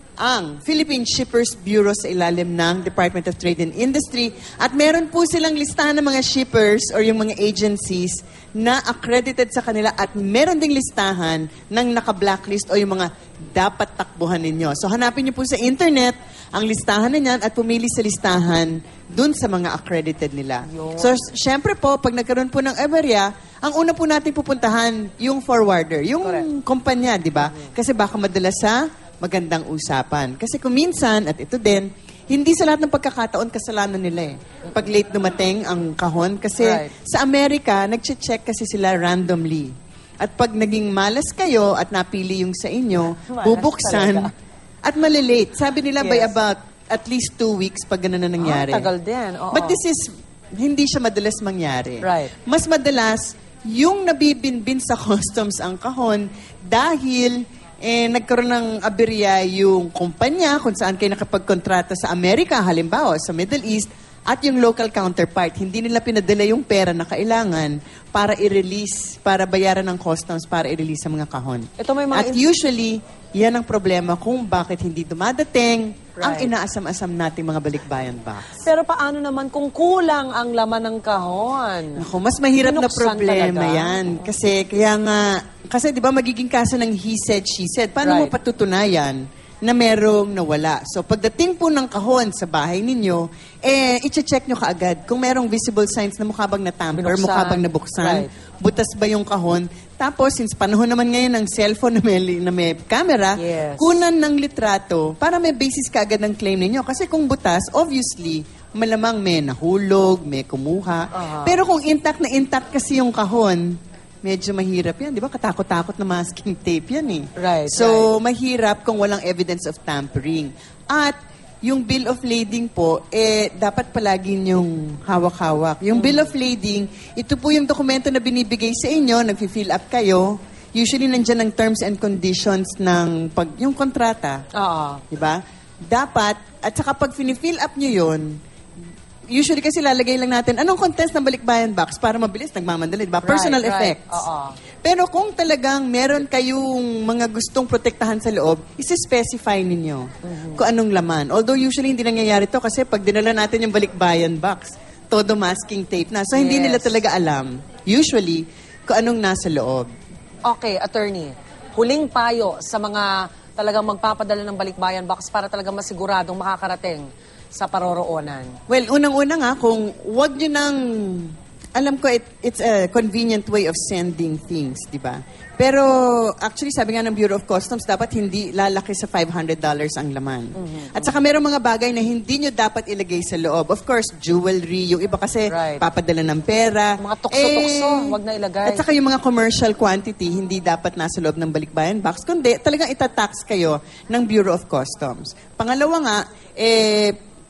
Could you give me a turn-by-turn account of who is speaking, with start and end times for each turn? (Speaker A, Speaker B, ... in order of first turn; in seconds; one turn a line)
Speaker A: 0.2-44.3
Speaker B: 20.7-21.2
Speaker B: 27.4-27.7
Speaker B: 36.6-36.9
Speaker B: 43.3-44.3
Speaker A: 44.8-48.9
Speaker B: 46.0-46.4
Speaker B: 48.4-49.8
Speaker A: 49.5-78.6
Speaker B: 52.0-52.3
Speaker B: 71.8-72.4
Speaker B: 76.2-76.5
Speaker B: 78.5-82.0
Speaker A: 82.0-134.4
Speaker B: 82.6-84.2
Speaker B: 88.0-88.3
Speaker B: 96.9-98.3
Speaker B: 103.4-104.0
Speaker B: 111.1-111.6
Speaker B: 117.4-118.1
Speaker B: 125.9-126.3
Speaker B: 134.6-135.0
Speaker A: 135.1-138.4
Speaker A: 139.3-144.2
Speaker B: 143.2-144.6
Speaker A: 144.8-159.9
Speaker B: 150.2-150.6
Speaker B: 156.3-157.0
Speaker B: 160.5-168.6
Speaker A: 168.7-188.1
Speaker B: 180.6-181.2
Speaker B: 185.5-185.9
Speaker B: 187.0-188.8
Speaker A: 188.7-197.2